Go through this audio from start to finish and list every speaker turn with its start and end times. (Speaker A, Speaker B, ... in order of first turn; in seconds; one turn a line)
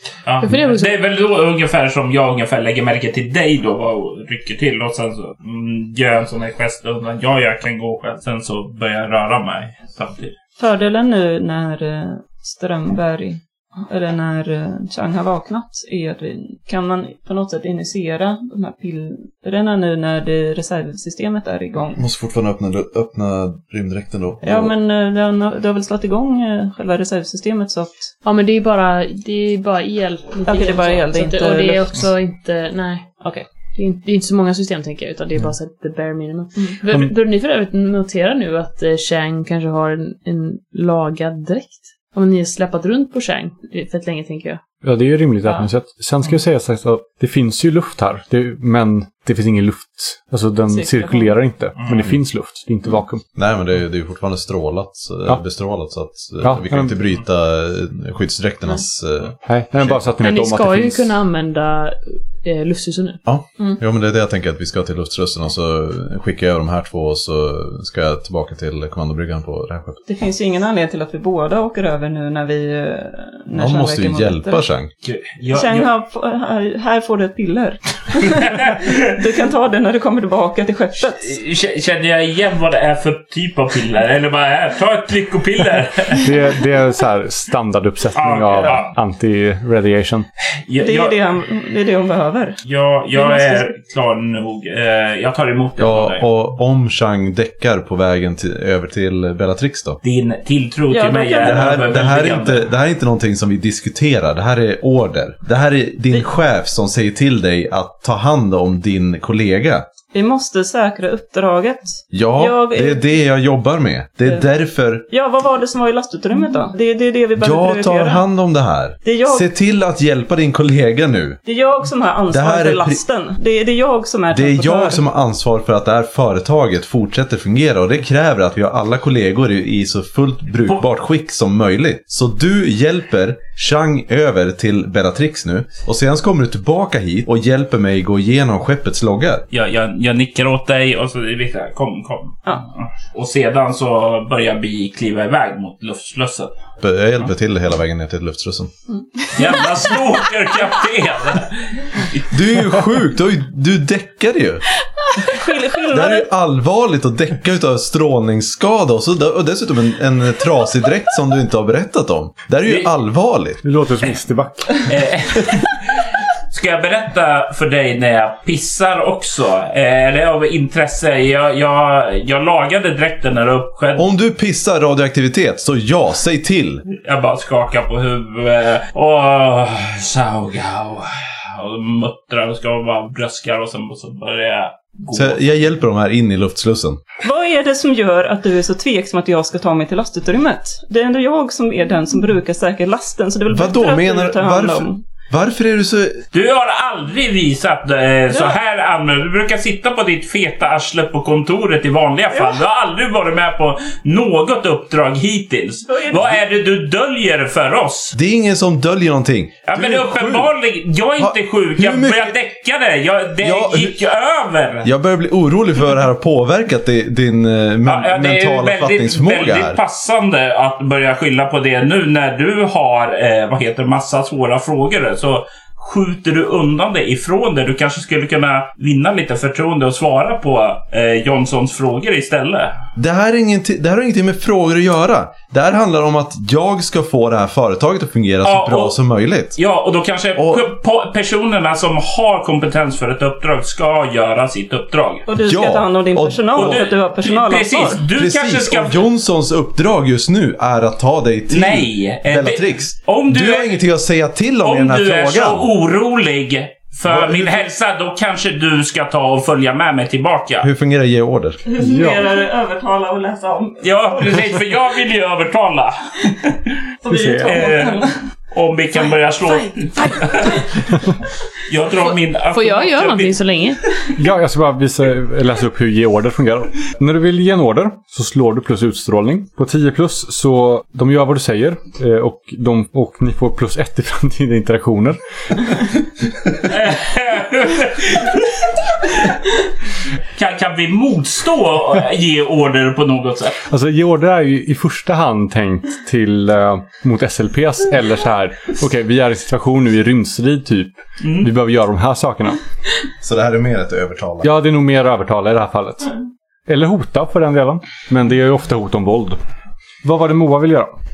Speaker A: 0.2-10.3
Speaker B: 0.4-0.9
Speaker C: 10.6-22.0
Speaker D: 21.9-24.7
Speaker C: 24.4-28.1
Speaker B: 28.2-33.2
Speaker C: 30.5-32.0
Speaker C: 33.2-33.5
Speaker B: 33.7-44.6
Speaker E: 44.8-53.2
Speaker D: 53.3-60.0
Speaker E: 56.4-57.0
Speaker E: 59.4-61.1
Speaker B: 60.2-63.2
Speaker D: 63.3-70.0
Speaker C: 70.1-74.6
Speaker D: 73.5-74.9
Speaker A: 75.0-75.9
Speaker C: 75.5-81.3
Speaker A: 78.4-79.0
Speaker A: 81.2-86.3
Speaker E: 86.1-90.3
Speaker A: 88.1-88.9
Speaker A: 90.7-91.2
Speaker C: 90.8-92.6
Speaker A: 92.6-96.2
Speaker C: 93.1-93.7
Speaker D: 95.8-100.0
Speaker A: 100.0-102.6
Speaker C: 100.9-101.8
Speaker D: 101.4-109.8
Speaker C: 110.1-113.1
Speaker D: 112.1-115.1
Speaker C: 115.1-118.2
Speaker D: 117.4-121.4
Speaker C: 119.0-119.5
Speaker C: 121.5-125.0
Speaker D: 122.3-123.0
Speaker D: 124.3-139.5
Speaker A: 139.5-146.5
Speaker D: 146.8-148.7
Speaker A: 149.3-152.3
Speaker D: 152.3-154.6
Speaker C: 155.1-156.3
Speaker D: 155.9-163.6
Speaker E: 163.6-164.9
Speaker A: 164.8-174.1
Speaker D: 173.9-176.8
Speaker A: 176.9-185.4
Speaker D: 185.1-187.0
Speaker C: 187.2-195.0
Speaker D: 193.5-196.2
Speaker A: 196.3-208.2
Speaker C: 198.3-198.6
Speaker C: 205.9-206.4
Speaker D: 208.1-210.5
Speaker A: 209.7-214.9
Speaker D: 211.2-212.3
Speaker D: 213.4-214.0
Speaker D: 214.8-219.8
Speaker A: 217.8-232.8
Speaker D: 232.9-239.6
Speaker A: 238.4-238.9
Speaker A: 239.6-245.3
Speaker D: 240.4-240.7
Speaker C: 245.3-248.0
Speaker D: 245.4-246.8
Speaker A: 246.5-249.0
Speaker D: 248.2-255.7
Speaker A: 251.5-253.7
Speaker A: 254.6-260.7
Speaker D: 257.1-257.6
Speaker D: 260.6-261.6
Speaker C: 261.6-264.3
Speaker E: 261.8-262.3
Speaker A: 263.8-266.7
Speaker C: 267.0-268.1
Speaker E: 267.1-267.6
Speaker A: 267.4-270.9
Speaker B: 270.0-270.6
Speaker A: 271.7-273.4
Speaker B: 272.4-273.8
Speaker E: 274.1-285.9
Speaker A: 286.6-289.3
Speaker A: 290.3-293.6
Speaker E: 293.6-302.6
Speaker D: 303.2-304.5
Speaker E: 304.4-306.1
Speaker E: 306.7-309.4
Speaker E: 310.0-310.9